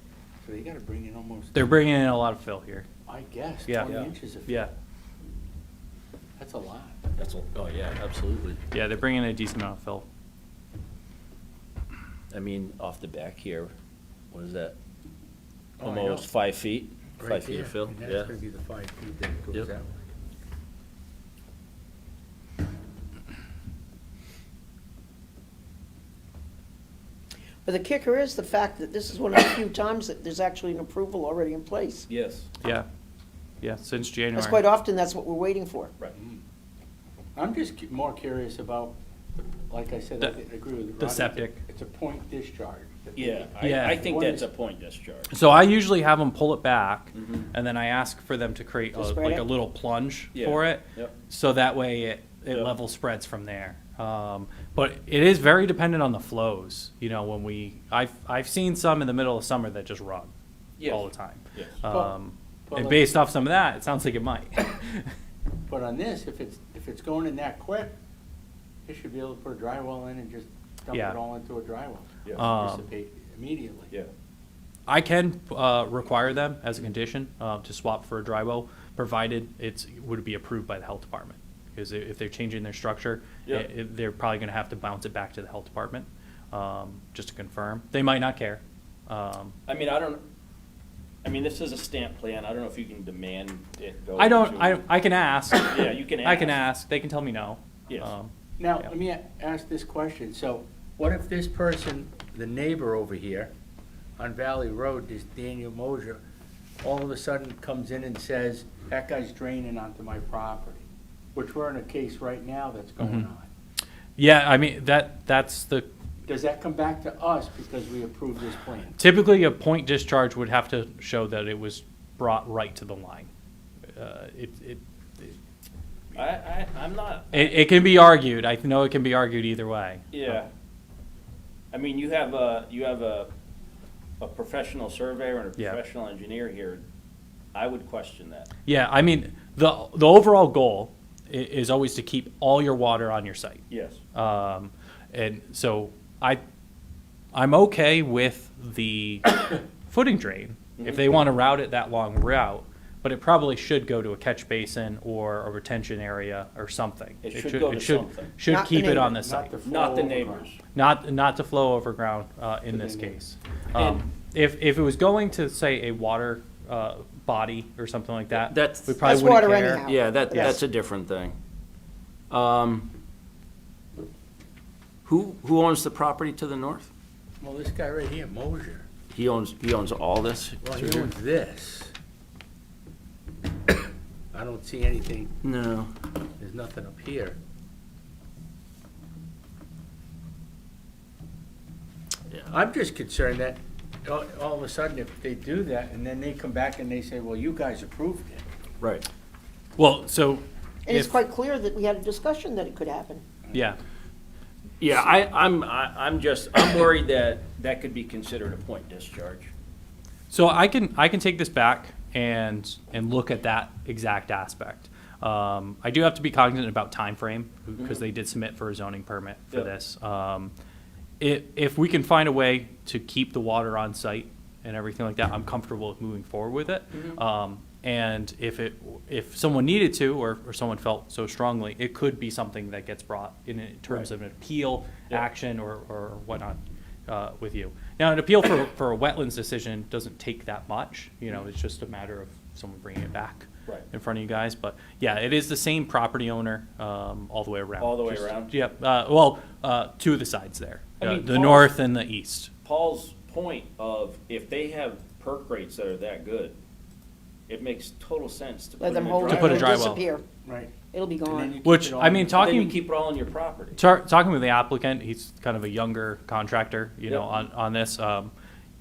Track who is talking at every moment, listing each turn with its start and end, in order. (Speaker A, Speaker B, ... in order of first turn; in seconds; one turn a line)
Speaker A: 0.4-1.7
Speaker B: 1.5-2.9
Speaker A: 3.0-4.6
Speaker B: 3.7-4.7
Speaker C: 3.8-4.1
Speaker A: 6.4-7.0
Speaker C: 7.2-8.6
Speaker B: 8.7-10.0
Speaker C: 12.3-13.7
Speaker C: 14.3-14.8
Speaker A: 15.8-16.2
Speaker C: 15.8-18.3
Speaker A: 17.2-20.0
Speaker D: 27.6-32.1
Speaker C: 32.1-32.5
Speaker B: 32.6-32.9
Speaker B: 33.6-34.6
Speaker D: 34.3-35.9
Speaker A: 36.1-36.4
Speaker A: 37.4-39.0
Speaker A: 39.7-44.5
Speaker B: 41.0-41.6
Speaker C: 43.1-45.3
Speaker B: 43.6-44.0
Speaker B: 45.3-60.3
Speaker C: 47.1-47.5
Speaker D: 48.9-49.4
Speaker C: 50.3-51.1
Speaker C: 60.8-61.8
Speaker B: 60.8-65.1
Speaker A: 61.8-62.1
Speaker A: 62.7-63.1
Speaker A: 65.7-68.0
Speaker A: 68.8-73.9
Speaker B: 70.9-71.2
Speaker B: 72.3-72.9
Speaker B: 74.9-89.5
Speaker C: 89.7-90.2
Speaker C: 91.2-94.8
Speaker B: 94.2-98.3
Speaker C: 95.5-96.6
Speaker A: 98.6-103.5
Speaker A: 104.2-106.2
Speaker A: 106.8-113.5
Speaker B: 113.0-113.3
Speaker B: 114.2-115.9
Speaker A: 116.3-119.0
Speaker B: 119.0-123.3
Speaker B: 123.9-125.4
Speaker C: 126.1-127.7
Speaker B: 127.3-130.4
Speaker C: 130.1-130.5
Speaker C: 131.7-133.3
Speaker C: 134.2-136.8
Speaker C: 137.5-138.5
Speaker B: 138.7-146.4
Speaker C: 143.7-144.0
Speaker B: 147.3-159.5
Speaker C: 150.8-151.2
Speaker C: 157.2-158.3
Speaker D: 158.4-159.1
Speaker A: 159.0-160.6
Speaker C: 159.6-160.6
Speaker B: 160.7-169.8
Speaker A: 162.7-163.2
Speaker C: 163.7-164.0
Speaker C: 168.3-169.1
Speaker D: 169.0-170.6
Speaker C: 169.8-171.3
Speaker C: 172.3-172.9
Speaker C: 175.0-176.9
Speaker A: 177.4-178.9
Speaker C: 179.1-181.1
Speaker A: 180.6-181.9
Speaker A: 184.3-185.3
Speaker C: 185.4-185.9
Speaker A: 186.4-187.4
Speaker A: 192.5-198.4
Speaker C: 198.8-199.1
Speaker B: 199.8-201.2
Speaker D: 200.8-203.2
Speaker B: 203.5-203.8
Speaker C: 204.8-209.5
Speaker B: 210.3-220.5
Speaker C: 217.8-218.0
Speaker B: 221.2-252.5
Speaker C: 226.9-227.2
Speaker C: 247.8-248.5
Speaker C: 251.0-251.8
Speaker C: 252.6-256.6
Speaker C: 257.5-259.9
Speaker D: 258.8-260.2
Speaker B: 259.2-260.0
Speaker A: 260.4-260.7
Speaker D: 260.9-261.6
Speaker A: 261.3-262.4
Speaker B: 261.6-262.8
Speaker C: 262.3-263.8
Speaker B: 263.8-268.3
Speaker C: 267.1-267.4